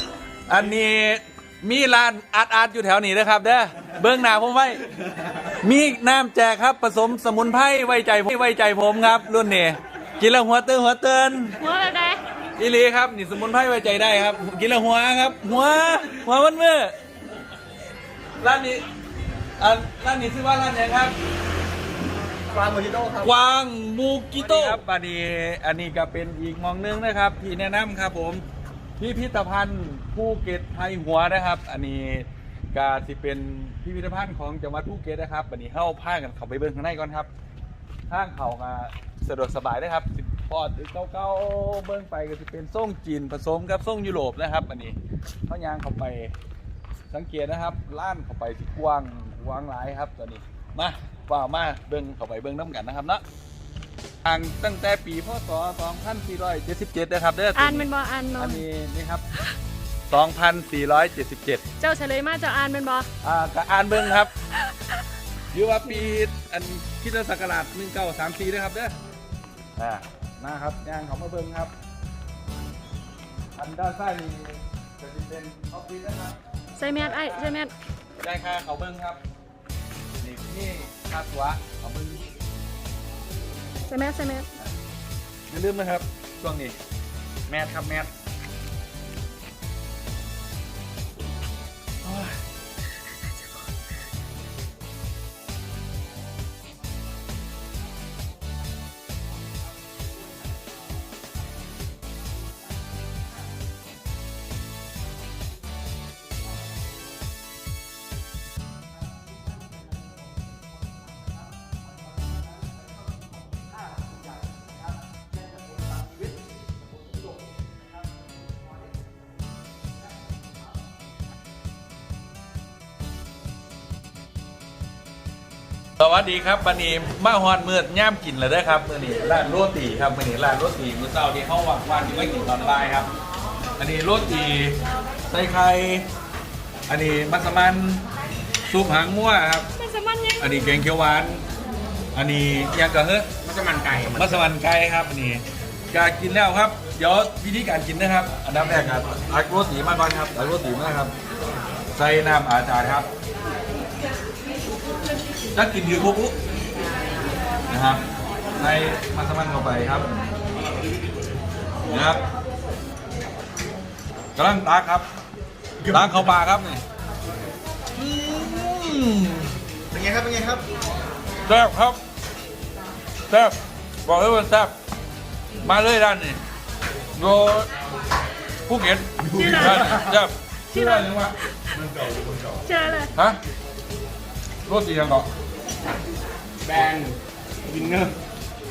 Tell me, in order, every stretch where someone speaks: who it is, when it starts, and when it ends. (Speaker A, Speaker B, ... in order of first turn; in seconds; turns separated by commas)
Speaker A: 0.5-4.8, Speaker A: 5.6-11.6, Speaker B: 11.6-12.2, Speaker A: 12.6-16.9, Speaker A: 18.4-18.8, Speaker A: 19.6-21.1, Speaker C: 22.5-23.3, Speaker A: 23.2-28.4, Speaker A: 29.0-37.3, Speaker A: 38.1-46.3, Speaker A: 47.1-53.2, Speaker A: 54.2-59.2, Speaker B: 57.5-58.6, Speaker A: 60.1-61.6, Speaker B: 61.8-63.1, Speaker A: 63.2-64.3, Speaker A: 65.5-68.9, Speaker A: 69.8-71.7, Speaker A: 73.6-76.4, Speaker B: 76.8-77.7, Speaker A: 76.9-77.6, Speaker A: 78.2-79.2, Speaker A: 80.2-82.2, Speaker B: 83.9-84.5, Speaker A: 85.5-86.8, Speaker A: 87.5-88.1, Speaker A: 92.0-92.3, Speaker A: 126.0-133.1, Speaker A: 133.8-136.1, Speaker A: 136.9-138.0, Speaker A: 138.7-139.7, Speaker B: 139.8-140.8, Speaker A: 140.4-141.4, Speaker A: 142.2-143.3, Speaker C: 143.5-144.3, Speaker A: 144.1-151.1, Speaker A: 151.9-153.1, Speaker A: 155.6-156.3, Speaker A: 157.7-158.0, Speaker A: 158.6-160.1, Speaker A: 161.9-162.2, Speaker A: 164.3-165.1, Speaker A: 165.9-166.8, Speaker A: 167.9-169.5, Speaker C: 169.9-170.6, Speaker A: 171.5-172.0, Speaker A: 173.3-174.7, Speaker A: 175.6-176.4, Speaker A: 177.2-177.7, Speaker A: 178.7-181.3, Speaker B: 179.3-180.1, Speaker B: 180.7-181.8, Speaker B: 182.7-183.1, Speaker A: 184.7-185.3, Speaker C: 186.7-188.2